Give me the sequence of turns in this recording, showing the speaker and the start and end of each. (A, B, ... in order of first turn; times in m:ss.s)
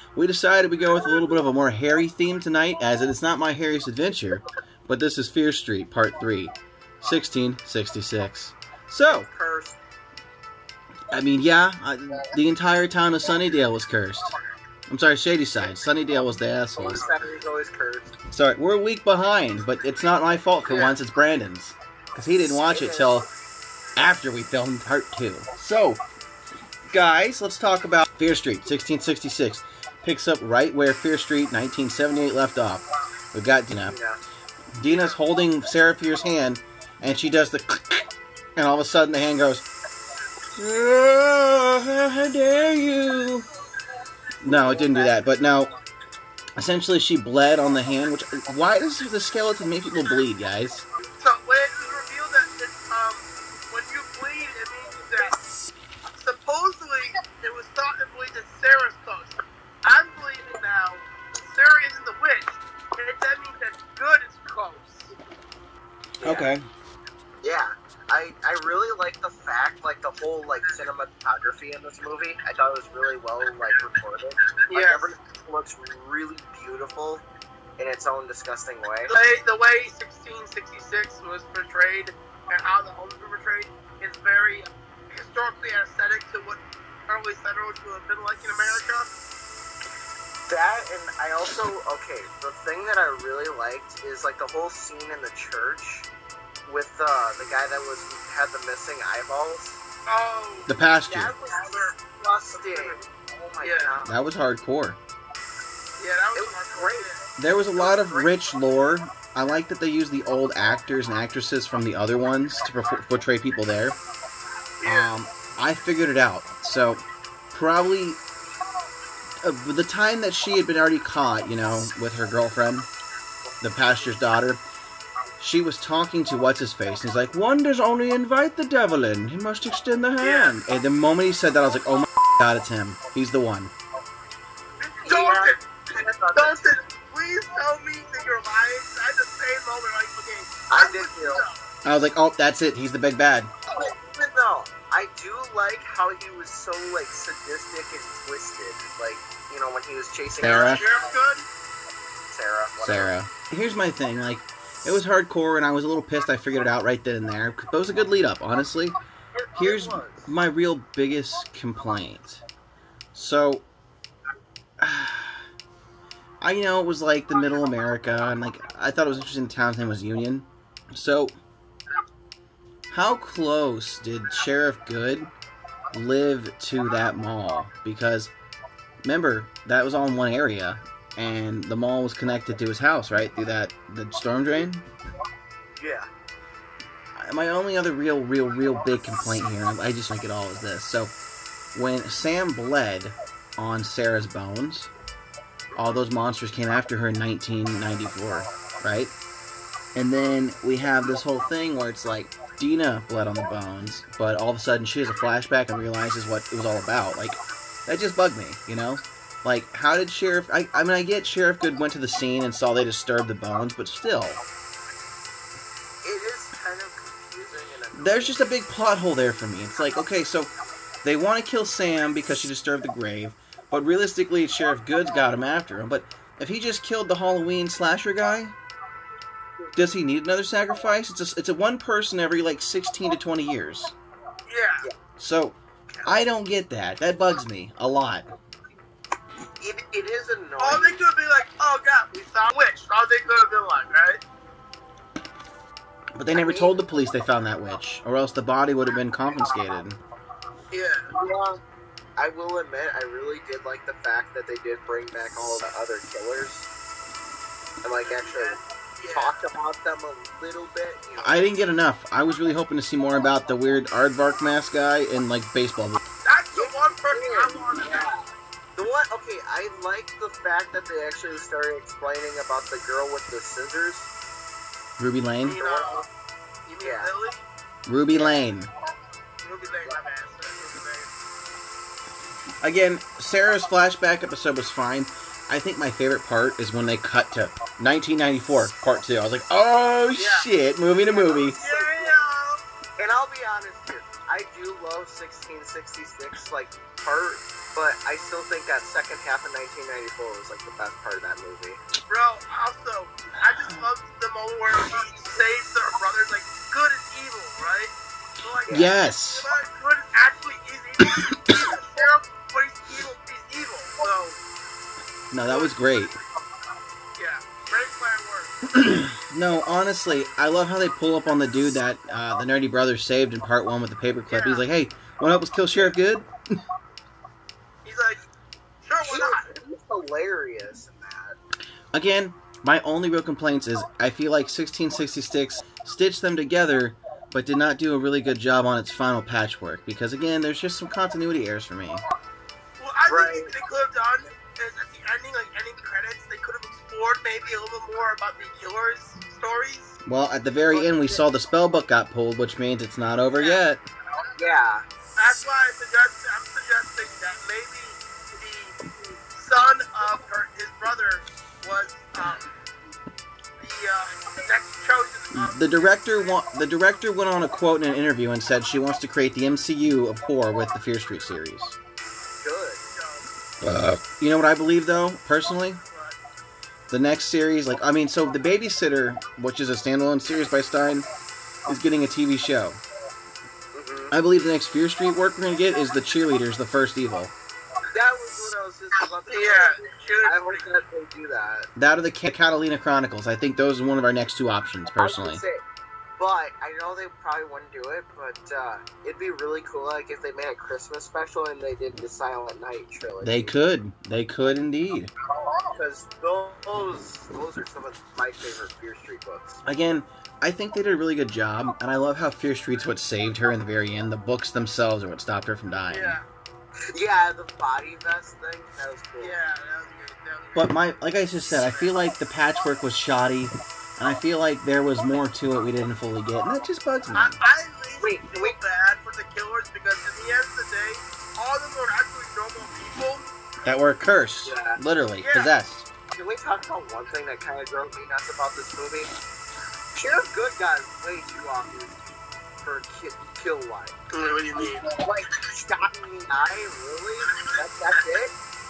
0:00.1-0:09.3 A
0:09.1-0:09.8 B
0:11.1-0:14.3 A
0:14.9-0:17.0 A
0:16.8-0:18.1 B
0:18.3-0:23.3 A
0:22.6-0:23.3 B
0:24.0-0:26.0 A
0:26.9-0:34.0 A
0:33.9-0:34.2 B
0:34.8-0:39.6 A
0:40.6-0:43.4 A
0:44.4-0:45.7 A
0:44.5-0:45.1 B
0:46.6-0:50.9 A
0:51.2-0:55.3 C
0:56.2-1:05.1 C
1:06.2-1:06.5 B
1:06.2-1:06.7 A
1:07.4-1:17.2 B
1:14.7-1:15.1 C
1:17.8-1:19.1 B
1:19.1-1:29.1 C
1:30.5-1:36.1 B
1:36.7-1:39.8 B
1:40.1-1:40.7 C
1:40.7-1:41.3 A
1:41.1-1:44.2 B
1:41.6-1:42.0 C
1:42.5-1:43.0 C
1:43.6-1:43.9 C
1:44.0-1:45.0 A
1:46.0-1:47.2 C
1:46.3-1:47.1 B
1:47.4-1:54.0 A
1:47.8-1:48.4 B
1:54.8-1:55.1 C
1:54.8-1:58.2 A
1:59.4-2:02.9 A
2:03.6-2:04.6 A
2:05.4-2:13.7 A
2:10.2-2:10.6 C
2:14.8-2:15.6 C
2:15.0-2:16.8 B
2:16.3-2:21.6 C
2:20.7-2:21.4 B
2:21.8-2:23.5 A
2:23.7-2:30.9 B
2:30.4-2:30.8 A
2:30.4-2:31.5 C
2:32.3-2:33.2 B
2:32.8-2:39.0 A
2:39.3-2:40.3 B
2:39.6-2:42.4 A
2:43.1-2:43.7 A
2:44.8-2:45.4 A
2:46.4-2:51.4 A
2:52.9-2:55.3 A
2:55.9-2:58.3 A
2:59.0-3:04.9 A
3:05.8-3:06.1 B
3:07.2-3:11.2 A
3:11.7-3:14.9 A
3:15.8-3:19.1 A
3:19.9-3:34.4 A
3:36.0-3:38.4 B
3:37.9-3:40.5 A
3:41.0-3:48.6 A
3:49.8-3:53.9 A
3:54.5-3:54.9 C
3:55.2-3:58.3 A
3:55.9-3:56.2 B
3:59.6-4:01.0 B
4:00.6-4:04.2 C
4:06.2-4:10.0 A
4:06.3-4:06.8 B
4:10.7-4:11.1 C
4:11.1-4:11.6 B
4:12.2-4:16.7 B
4:17.8-4:18.6 B
4:18.0-4:19.4 C
4:19.1-4:21.5 B
4:21.2-4:26.0 A
4:26.2-4:28.2 C
4:26.5-4:34.1 B
4:35.0-4:35.6 A
4:35.4-4:36.1 C
4:35.5-4:36.1 B
4:36.7-4:37.5 C
4:36.8-4:37.1 B
4:37.9-4:38.7 A
4:38.1-4:38.4 B
4:39.4-4:41.1 C
4:42.6-4:51.6 A
4:50.1-4:50.5 C
4:50.9-4:52.2 B
4:51.6-4:52.6 C
4:53.0-5:01.8 B
5:02.1-5:14.4 C
5:08.7-5:09.5 A
5:11.1-5:11.4 A
5:15.3-5:16.2 A
5:15.4-5:15.8 C
5:17.2-5:18.5 C
5:18.7-5:26.3 A
5:24.3-5:24.7 C
5:27.8-5:28.2 C
5:28.8-5:29.5 C
5:29.0-5:31.4 B
5:31.9-5:42.0 A
5:42.8-5:50.0 C
5:43.1-5:43.5 B
5:50.0-5:53.8 A
5:50.7-5:51.2 C
5:53.3-5:53.6 C
5:54.4-5:54.8 B
5:55.2-5:58.8 C
5:59.3-6:02.5 C
6:03.6-6:06.4 C
6:05.3-6:11.8 A
6:12.4-6:12.8 B
6:12.9-6:13.2 C
6:13.6-6:15.8 A
6:15.8-6:16.2 C
6:16.9-6:21.1 A
6:21.7-6:22.8 A
6:23.7-6:24.1 B
6:24.1-6:27.3 A
6:27.9-6:31.7 B
6:29.3-6:30.8 C
6:31.8-6:35.4 A
6:35.0-6:35.6 B
6:36.2-6:43.6 B
6:43.2-6:45.1 A
6:45.7-6:49.6 B
6:49.6-6:56.2 A
6:55.9-6:56.2 C
6:56.9-6:59.4 B
6:59.2-7:00.8 C
7:00.6-7:07.3 A
7:01.4-7:02.0 C
7:07.1-7:13.3 C
7:08.0-7:08.6 B
7:13.6-7:15.9 A
7:14.4-7:14.8 B
7:15.2-7:15.5 C
7:16.1-7:19.1 B
7:19.9-7:23.9 B
7:24.1-7:25.0 C
7:25.0-7:28.3 B